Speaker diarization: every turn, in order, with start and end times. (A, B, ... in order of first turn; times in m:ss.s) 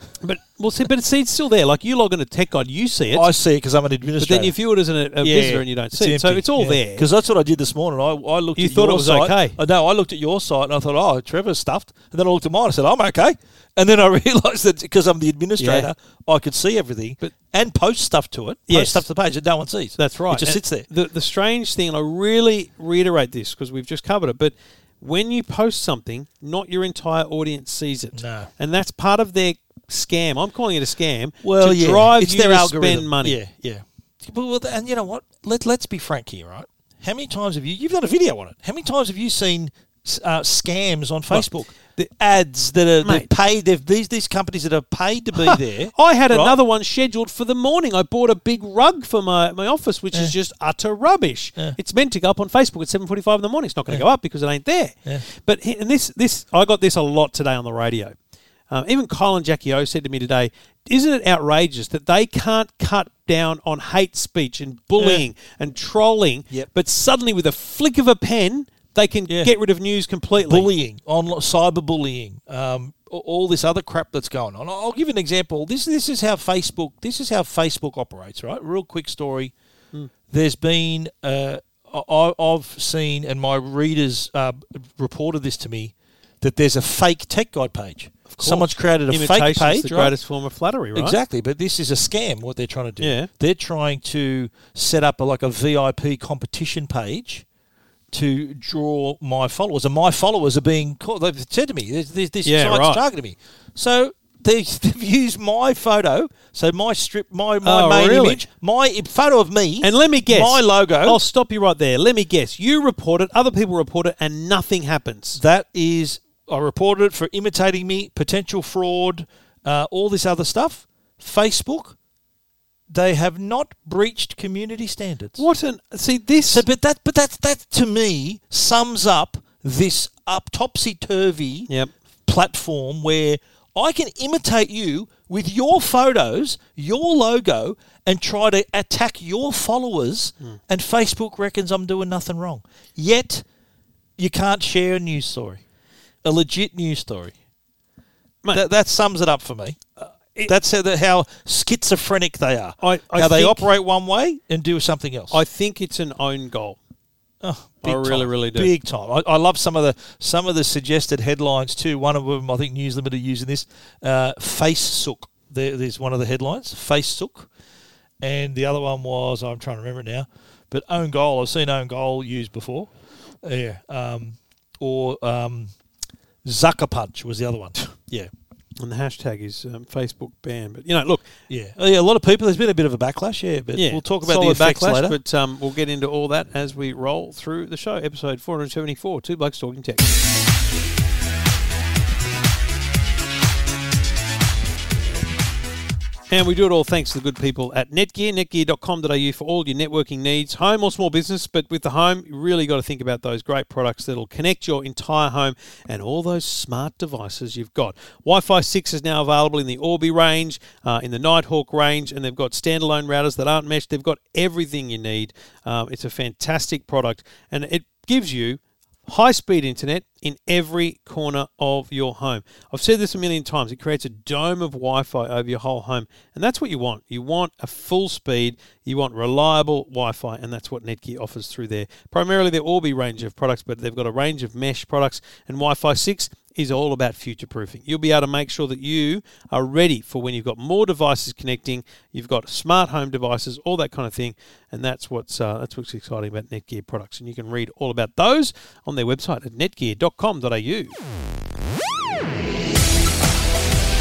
0:00.2-0:03.3 A
0:03.1-0:04.5 B
0:04.2-0:07.1 A
0:05.2-0:20.9 B
0:08.6-0:09.6 A
0:15.6-0:15.9 A
0:18.7-0:19.1 A
0:20.0-0:33.4 A
0:28.1-0:28.5 B
0:31.4-0:46.6 B
0:41.3-0:42.1 A
0:45.4-0:58.1 A
0:58.7-1:10.7 A
1:05.0-1:05.2 B
1:10.4-1:19.5 B
1:20.3-1:30.1 B
1:28.3-1:31.2 A
1:30.9-1:37.4 B
1:33.0-1:33.3 A
1:38.1-1:51.2 B
1:42.4-1:43.0 A
1:47.6-1:48.4 A
1:49.8-1:55.4 A
1:55.4-2:02.0 B
2:02.9-2:05.4 B
2:05.4-2:06.6 A
2:06.5-2:11.7 B
2:12.2-2:23.4 B
2:24.2-2:25.6 B
2:26.2-2:27.4 B
2:28.5-2:29.8 B
2:30.0-2:30.5 A
2:30.5-2:35.4 B
2:32.8-2:33.7 A
2:35.3-2:36.8 A
2:37.4-2:47.5 B
2:37.8-2:38.7 A
2:48.2-2:52.9 B
2:53.4-2:55.7 B
2:56.4-2:58.3 B
2:58.8-3:01.2 A
3:01.5-3:05.2 B
3:03.7-3:10.1 A
3:16.3-4:11.0 A